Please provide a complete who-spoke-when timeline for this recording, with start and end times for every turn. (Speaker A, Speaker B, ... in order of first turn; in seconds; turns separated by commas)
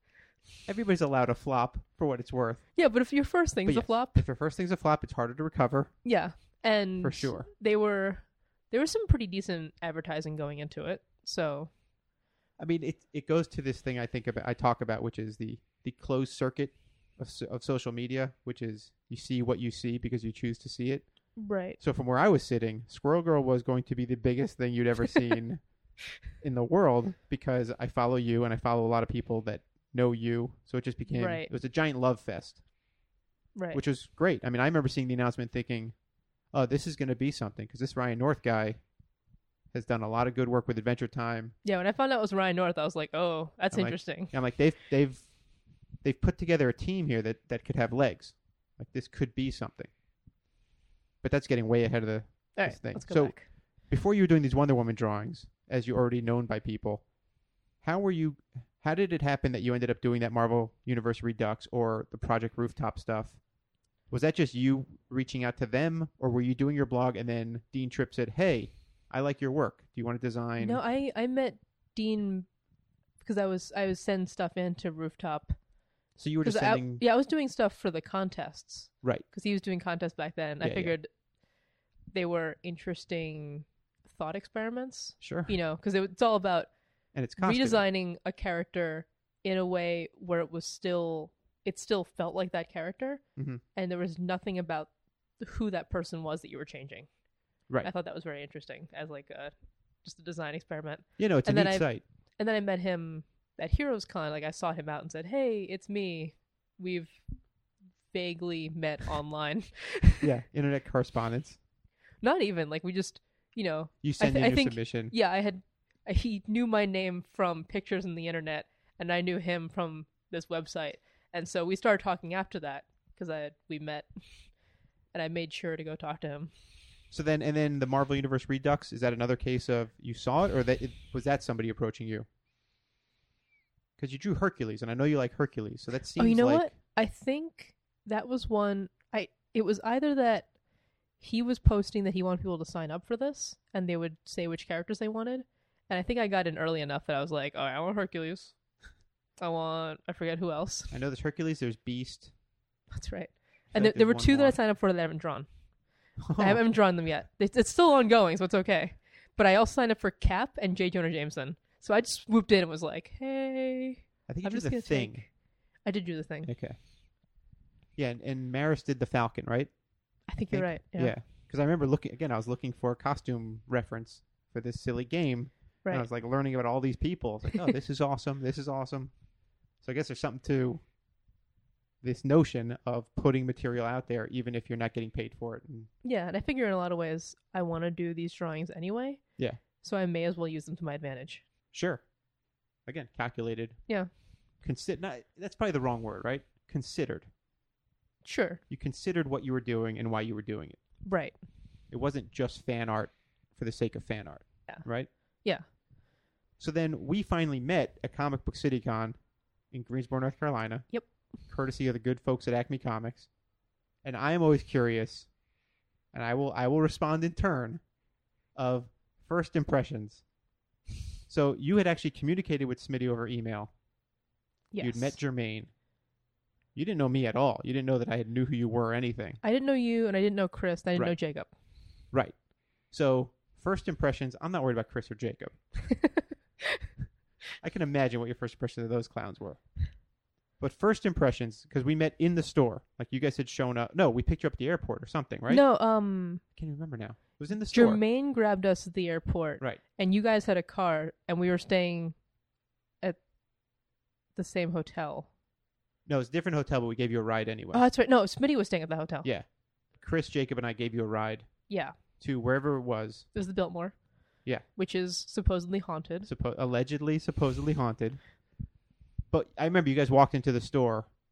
Speaker A: 0.7-2.9, Speaker B: 2.7-4.2, Speaker A: 3.6-6.1, Speaker B: 6.0-11.7, Speaker A: 7.0-7.5, Speaker A: 12.6-25.6, Speaker B: 21.4-21.8, Speaker A: 26.3-32.6, Speaker B: 31.1-31.5, Speaker B: 33.5-33.8, Speaker A: 33.7-36.0, Speaker A: 36.5-38.8, Speaker A: 39.7-41.5, Speaker B: 41.6-44.3, Speaker A: 43.7-45.3, Speaker A: 46.0-49.9, Speaker A: 51.2-57.1, Speaker B: 52.5-53.5, Speaker A: 57.8-63.4, Speaker A: 64.1-70.8, Speaker B: 70.6-72.5, Speaker B: 73.2-75.6, Speaker A: 76.2-77.0, Speaker B: 76.4-81.1, Speaker A: 80.6-80.9, Speaker B: 82.1-86.7, Speaker A: 85.2-85.5, Speaker A: 87.1-87.8, Speaker B: 87.4-93.2, Speaker A: 93.3-93.6, Speaker B: 93.7-97.1, Speaker B: 97.8-107.2, Speaker A: 101.2-102.0, Speaker B: 108.1-110.2, Speaker A: 110.2-111.6, Speaker B: 112.2-124.1, Speaker A: 114.0-115.1, Speaker B: 125.1-126.5, Speaker A: 127.1-132.3, Speaker A: 134.0-136.7, Speaker B: 136.2-140.5, Speaker B: 141.2-148.6, Speaker B: 149.4-150.9, Speaker A: 150.9-152.3, Speaker B: 152.9-155.5, Speaker A: 153.7-154.6, Speaker A: 156.2-156.6, Speaker B: 156.3-166.5, Speaker A: 164.3-165.2, Speaker A: 166.4-166.8, Speaker A: 167.9-179.1, Speaker B: 170.3-171.1, Speaker A: 179.8-180.8, Speaker A: 182.0-185.9, Speaker B: 186.0-191.4, Speaker A: 191.7-192.1, Speaker A: 192.8-193.9, Speaker A: 194.6-197.3, Speaker B: 198.2-198.6, Speaker A: 198.7-200.8, Speaker B: 201.0-201.3, Speaker A: 201.9-205.1, Speaker B: 204.7-205.7, Speaker A: 206.6-209.2, Speaker A: 209.7-213.3, Speaker A: 214.0-215.3, Speaker A: 216.1-217.8, Speaker A: 218.5-220.2, Speaker A: 221.3-223.7, Speaker B: 224.7-225.2, Speaker A: 224.8-225.7, Speaker A: 226.7-229.4, Speaker B: 229.4-231.5, Speaker A: 232.1-235.5, Speaker B: 235.9-236.2, Speaker A: 237.6-239.7, Speaker A: 240.6-245.6, Speaker B: 245.5-246.4, Speaker A: 246.5-248.0, Speaker B: 247.7-252.2, Speaker B: 254.3-255.3, Speaker A: 256.1-257.9, Speaker B: 257.7-259.3, Speaker A: 259.2-263.3, Speaker B: 261.7-261.9, Speaker B: 263.3-264.0, Speaker B: 264.7-266.3, Speaker A: 266.2-268.2, Speaker A: 269.3-271.1